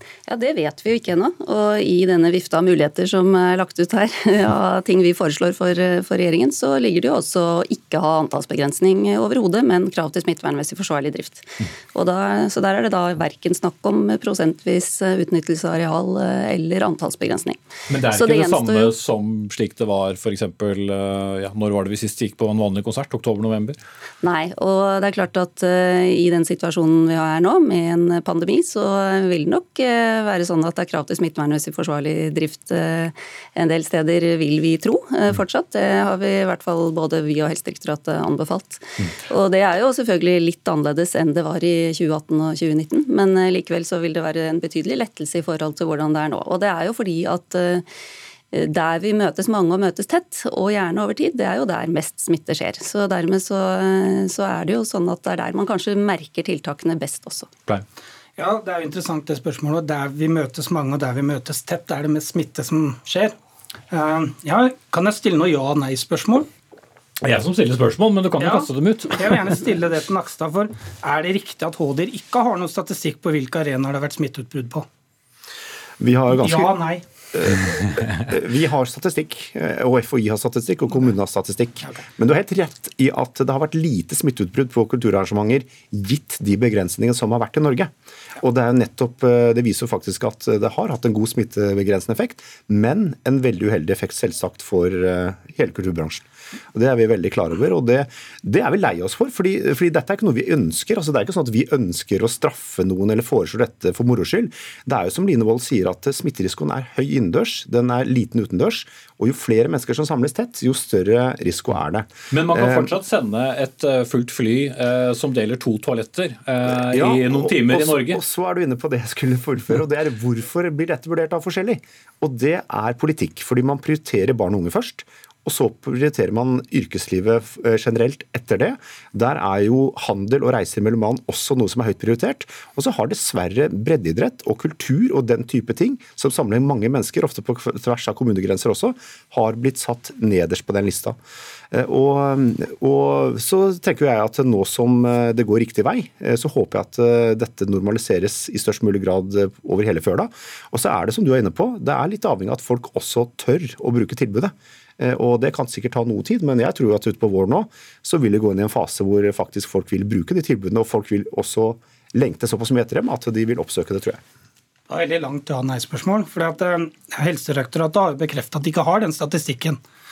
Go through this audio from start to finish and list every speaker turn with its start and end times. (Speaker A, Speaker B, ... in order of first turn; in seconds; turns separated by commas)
Speaker A: 0.3-18.9, Speaker B: 17.9-23.8, Speaker A: 24.2-47.9, Speaker A: 48.5-57.5, Speaker C: 58.4-63.3, Speaker C: 63.9-66.5, Speaker B: 67.2-69.3, Speaker C: 68.4-74.9, Speaker D: 76.0-76.8, Speaker C: 76.4-77.0, Speaker D: 77.3-112.9, Speaker B: 112.3-118.2, Speaker D: 116.7-141.2, Speaker D: 141.7-164.2, Speaker C: 164.9-169.8